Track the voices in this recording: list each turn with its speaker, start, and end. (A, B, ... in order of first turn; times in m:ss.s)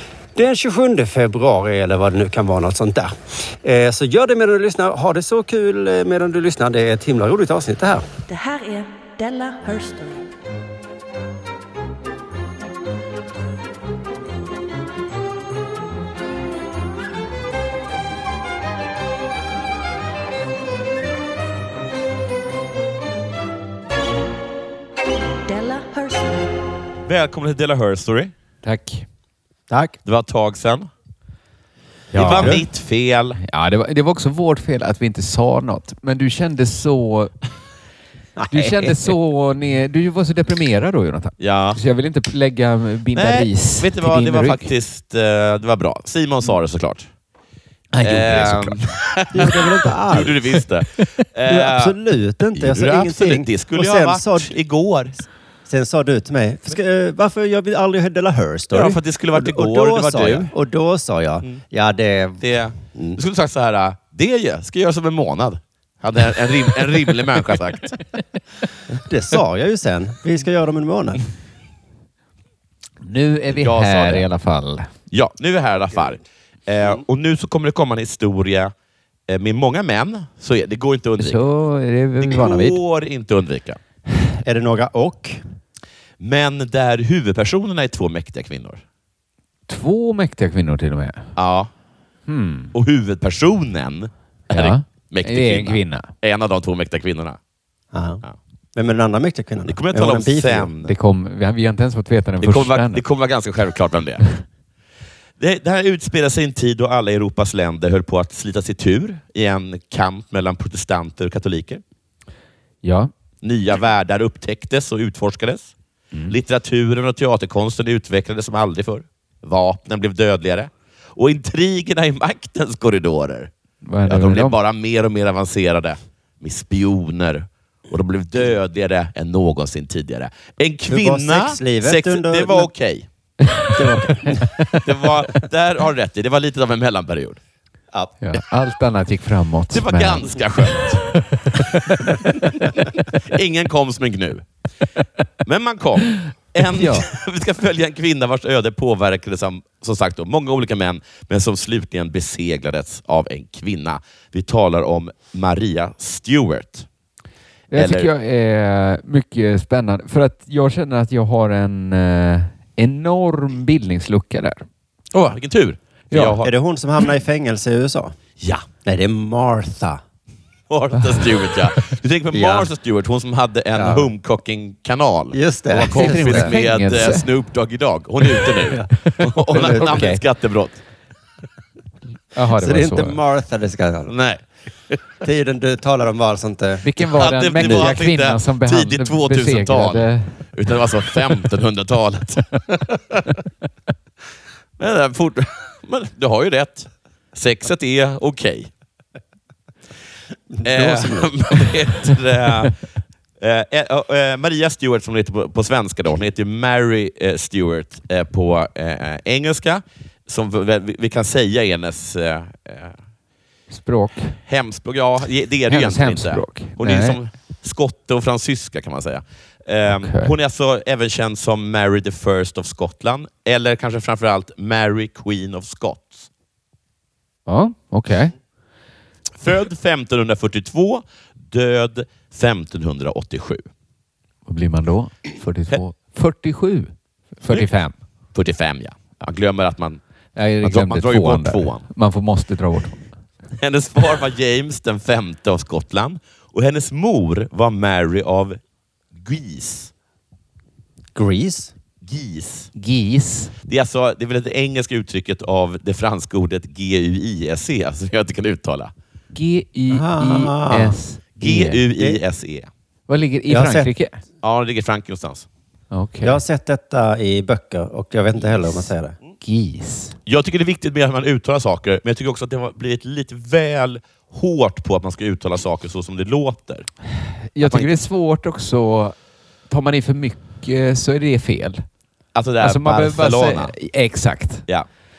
0:00.4-0:08.0 A
0:08.3-0:10.3 B
0:25.5-0:26.6 B
0:27.1-0:28.3 C
0:28.6-0:29.1 D
0:29.7-0:30.0 A
0:30.0-0:30.9 C
0:32.1-0:32.6 D
0:32.1-0:33.4 C
0:32.3-0:32.7 A
0:33.4-0:37.3 D
0:38.4-0:39.1 A
0:38.5-0:44.7 D
0:41.4-0:41.8 C
0:43.2-0:47.1 C
0:47.9-0:48.9 D
0:48.0-0:52.0 C
0:49.3-0:50.4 A
0:51.5-0:54.5 A
0:52.5-0:55.2 C
0:55.7-1:03.2 A
0:58.7-1:00.5 C
1:02.4-1:08.0 C
1:09.0-1:11.2 A
1:13.0-1:14.9 D
1:13.5-1:14.3 C
1:15.1-1:18.7 C
1:19.3-1:21.4 C
1:21.2-1:22.8 D
1:22.2-1:23.8 C
1:24.4-1:25.4 A
1:26.2-1:28.8 C
1:29.7-1:31.3 D
1:31.4-1:31.7 C
1:32.3-1:32.7 D
1:32.7-1:37.4 C
1:34.5-1:36.1 D
1:37.9-1:38.2 A
1:38.8-1:40.7 A
1:39.7-1:40.9 C
1:40.8-1:43.0 D
1:42.4-1:44.2 C
1:45.4-1:51.8 C
1:52.8-1:53.1 D
1:53.4-1:55.7 C
1:56.3-2:03.5 C
2:03.8-2:04.6 D
2:04.1-2:13.1 C
2:10.9-2:12.7 A
2:13.5-2:14.0 D
2:13.8-2:14.6 A
2:14.7-2:17.4 C
2:18.2-2:20.4 D
2:19.7-2:24.4 C
2:21.1-2:22.2 D
2:25.4-2:36.9 C
2:26.6-2:27.1 D
2:37.7-2:44.6 D
2:37.7-2:38.1 C
2:45.1-2:46.5 C
2:46.1-2:46.4 D
2:46.4-2:48.2 A
2:48.4-2:48.7 C
2:48.8-2:50.0 A
2:50.7-3:00.8 C
2:52.3-2:52.7 A
2:53.8-2:54.1 A
2:55.3-2:56.5 A
2:55.8-2:57.3 D
2:58.9-3:00.2 D
2:59.5-3:00.0 A
3:02.3-3:03.2 D
3:02.5-3:04.1 A
3:04.1-3:05.0 C
3:05.2-3:06.9 A
3:06.8-3:10.4 D
3:07.0-3:13.4 C
3:07.6-3:07.9 A
3:14.8-3:18.7 C
3:20.5-3:21.4 A
3:20.6-3:22.8 C
3:23.4-3:33.0 C
3:33.7-3:34.4 D
3:34.5-3:46.3 C
3:35.7-3:37.2 D
3:39.9-3:40.3 D
3:47.5-3:48.3 D
3:49.4-3:53.6 C
3:54.5-3:57.9 D
3:58.3-4:00.0 C
4:00.4-4:03.1 D
4:00.6-4:01.8 C
4:03.6-4:08.6 C
4:09.2-4:09.9 C
4:11.2-4:11.7 A
4:12.0-4:12.7 C
4:12.8-4:13.5 D
4:13.7-4:18.9 C
4:19.3-4:21.8 D
4:19.9-4:21.0 A
4:21.4-4:22.7 C
4:23.1-4:24.2 D
4:23.5-4:23.9 A
4:24.4-4:25.5 C
4:25.9-4:26.4 D
4:26.2-4:29.2 A
4:29.4-4:30.2 D
4:30.3-4:36.9 C
4:37.5-4:39.2 D
4:37.6-4:37.9 C
4:39.7-4:41.9 D
4:42.4-4:43.7 C
4:42.6-4:44.6 D